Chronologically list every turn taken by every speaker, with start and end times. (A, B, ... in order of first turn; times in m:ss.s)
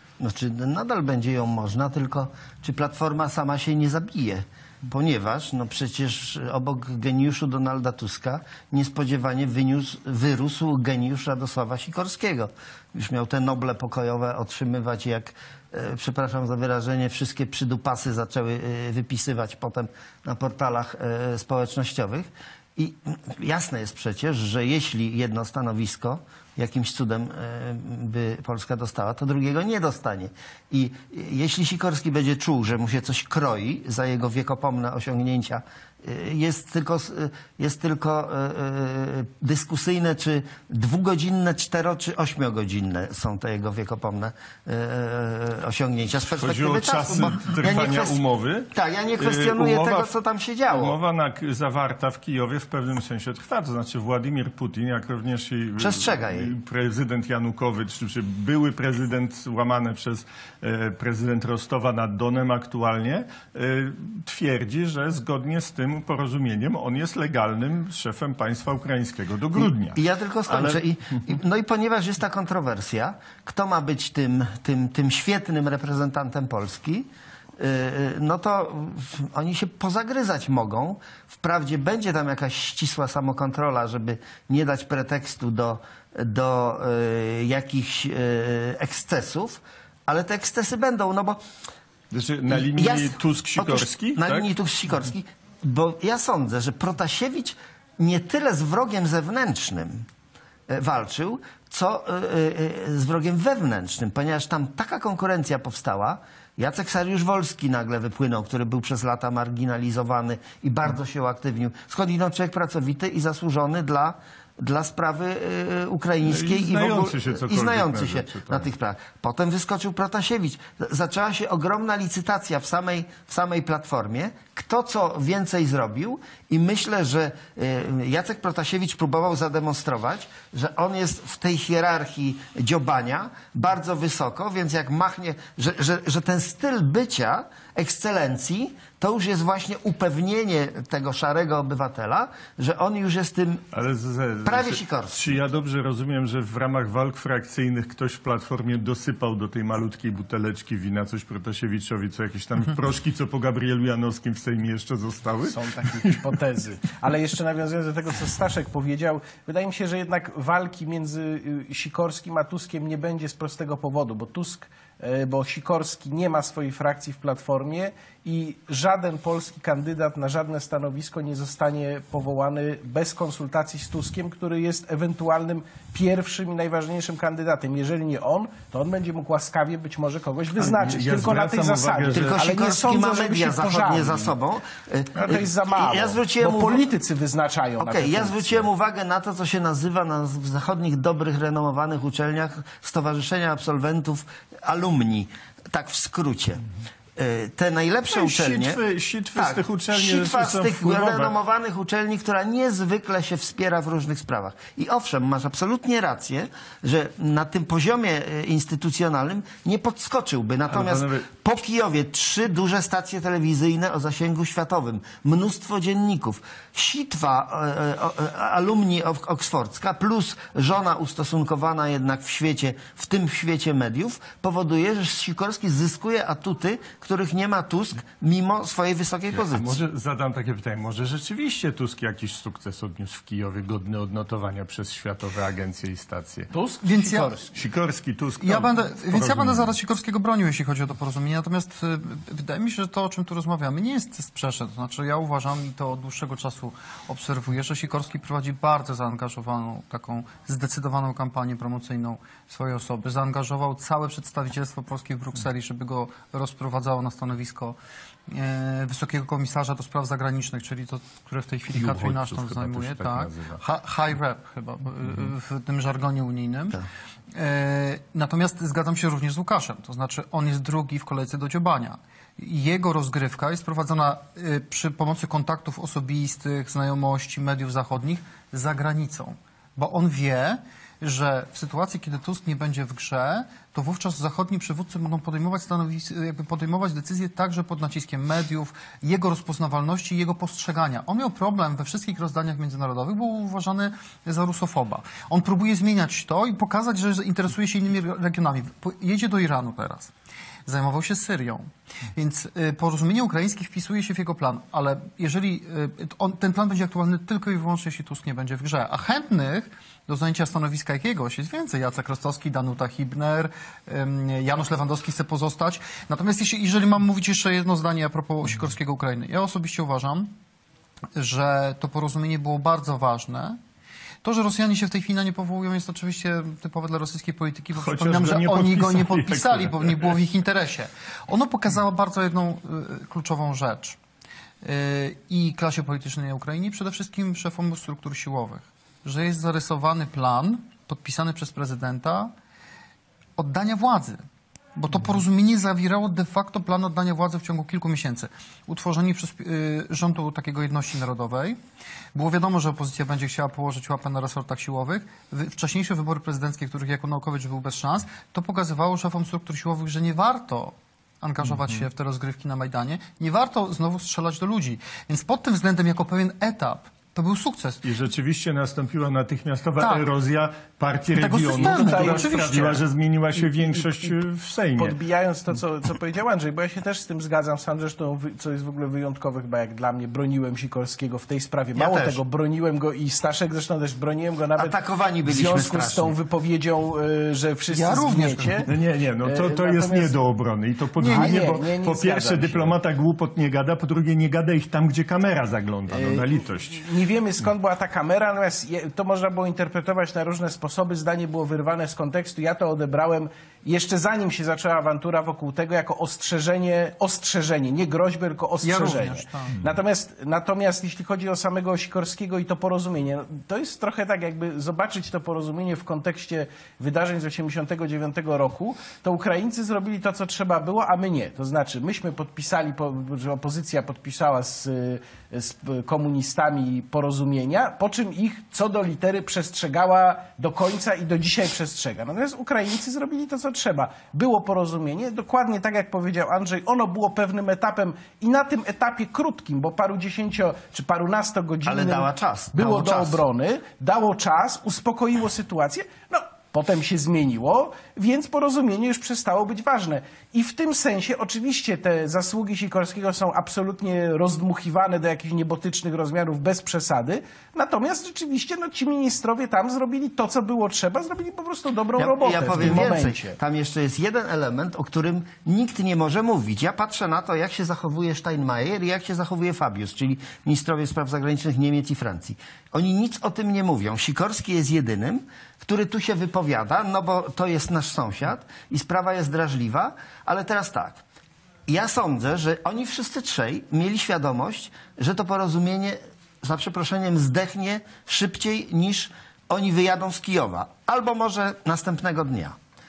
0:00.2-0:48.2 A
0:46.3-0:50.1 B
0:48.7-0:51.0 A
0:50.7-1:10.8 B
0:55.8-0:56.5 A
1:09.6-1:31.4 A
1:32.1-1:34.4 B
1:32.5-1:40.0 A
1:40.7-2:23.6 A
1:56.2-1:58.7 B
2:23.7-2:36.2 B
2:24.4-2:25.3 A
2:35.5-3:04.3 C
3:00.6-3:02.4 B
3:02.1-3:06.8 A
3:05.2-3:08.6 C
3:07.8-3:16.6 A
3:17.2-3:18.8 A
3:18.1-3:21.3 B
3:19.3-3:49.8 A
3:30.7-3:31.3 B
3:49.3-3:56.5 B
3:56.5-3:57.5 C
3:56.8-3:57.3 D
3:57.5-3:59.7 B
3:58.4-4:17.8 D
4:18.3-4:26.8 D
4:21.7-4:23.6 B
4:27.3-5:00.1 D
5:00.6-5:20.3 D
5:21.1-5:23.6 D
5:24.2-5:34.0 D
5:27.8-5:30.1 B
5:34.6-5:42.3 D
5:43.4-5:44.2 D
5:44.8-5:51.6 D
5:52.1-6:07.8 D
6:07.8-6:15.0 B
6:11.1-6:12.8 D
6:11.5-6:12.8 C
6:13.4-6:14.2 C
6:14.8-6:28.7 C
6:21.7-6:22.2 A
6:24.6-6:26.1 A
6:27.7-6:28.7 D
6:28.7-6:36.9 B
6:29.2-6:30.1 C
6:31.0-6:31.4 D
6:31.0-6:32.8 C
6:35.9-7:43.4 C
6:48.6-6:49.6 D
7:21.6-7:23.2 A
7:42.0-8:01.0 A
8:01.7-8:12.5 A